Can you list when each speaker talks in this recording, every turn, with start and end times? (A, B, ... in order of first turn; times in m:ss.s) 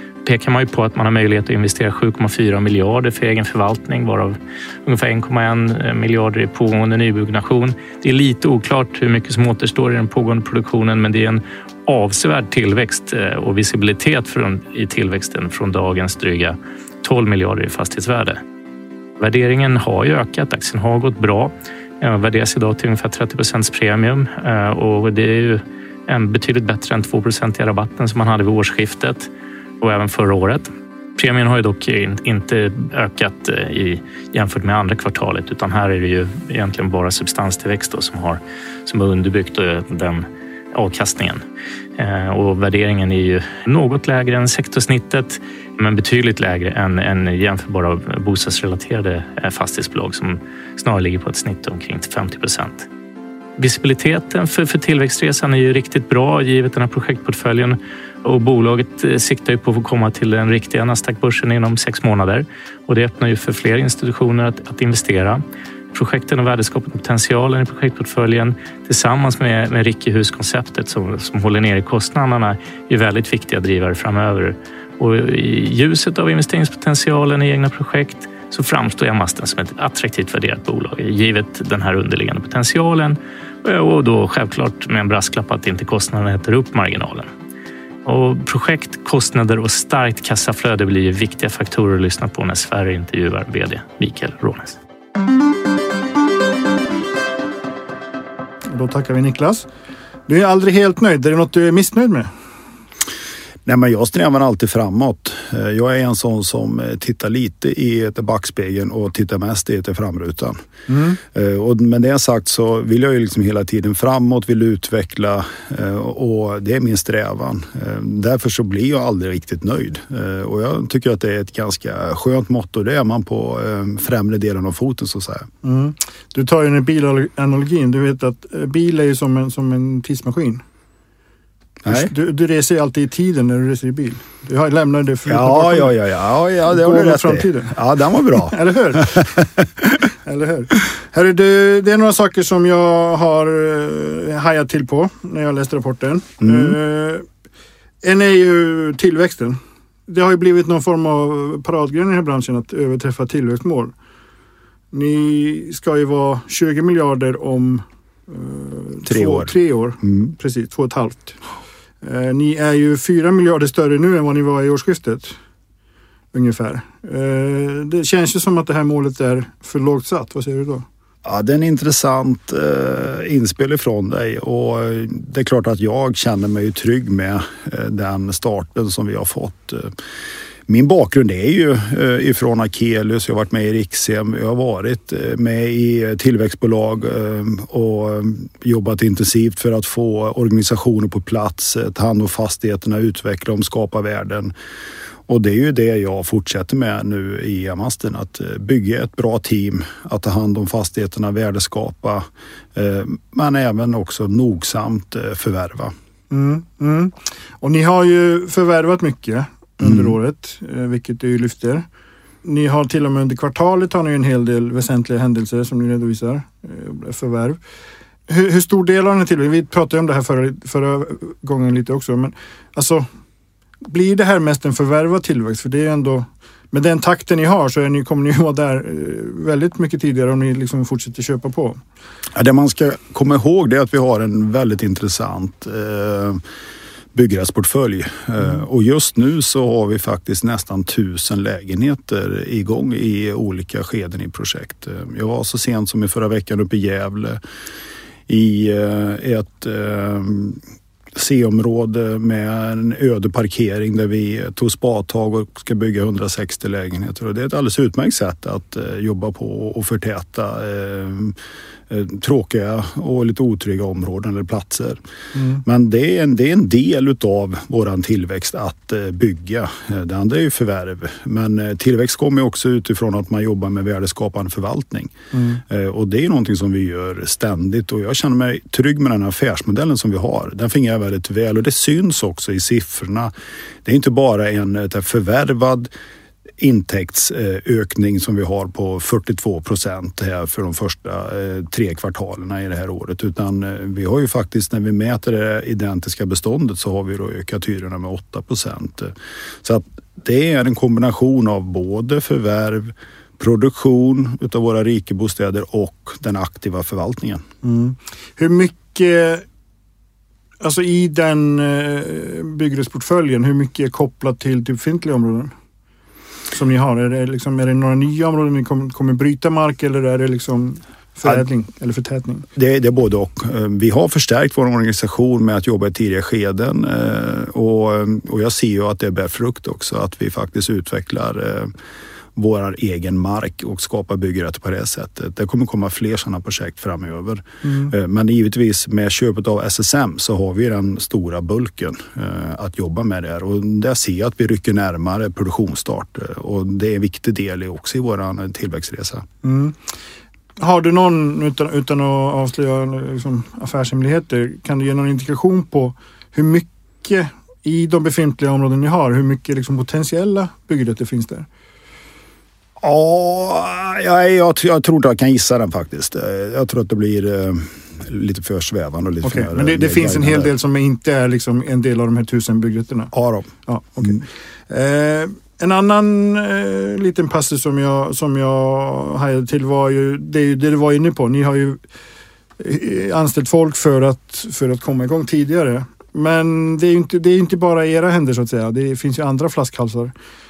0:00.2-0:18.4 A
0:19.2-0:29.3 A
0:29.8-0:41.4 A
0:42.0-0:52.9 A
0:53.6-1:05.4 A
1:05.9-1:27.3 A
1:28.0-1:34.8 A
1:38.7-1:39.7 B
1:40.3-1:42.3 B
1:43.6-1:50.6 C
1:50.9-1:51.2 B
1:51.2-2:05.5 C
2:05.6-2:10.6 B
2:11.8-2:12.1 C
2:11.9-2:15.9 B
2:15.3-2:19.8 C
2:16.7-2:27.3 B
2:26.4-2:26.8 C
2:28.0-2:33.9 B
2:34.9-2:41.4 B
2:39.0-2:40.3 C
2:42.0-2:45.4 B
2:46.3-2:50.8 B
2:51.2-3:00.0 C
3:00.7-3:14.5 C
3:15.3-3:25.9 C
3:26.3-3:31.8 B
3:29.8-3:30.1 C
3:32.4-3:37.6 B
3:38.3-3:43.1 B
3:43.8-3:51.8 B
3:52.3-3:56.4 C
3:57.1-4:07.4 C
4:08.3-4:10.6 C
4:11.1-4:21.4 C
4:21.9-4:25.0 C
4:25.3-4:25.6 B
4:25.6-4:43.3 C
4:35.3-4:35.6 B
4:43.8-4:45.9 C
4:46.6-5:07.4 C
5:07.6-5:09.4 B
5:10.6-5:15.5 B
5:16.5-5:22.4 B
5:22.6-5:31.7 C
5:32.3-5:49.3 C
5:37.6-5:37.9 B
5:49.4-5:49.8 B
5:50.6-6:01.5 B
6:02.8-6:10.5 C
6:09.2-6:13.1 B
6:13.1-6:14.2 C
6:13.7-6:21.8 B
6:22.6-6:30.1 B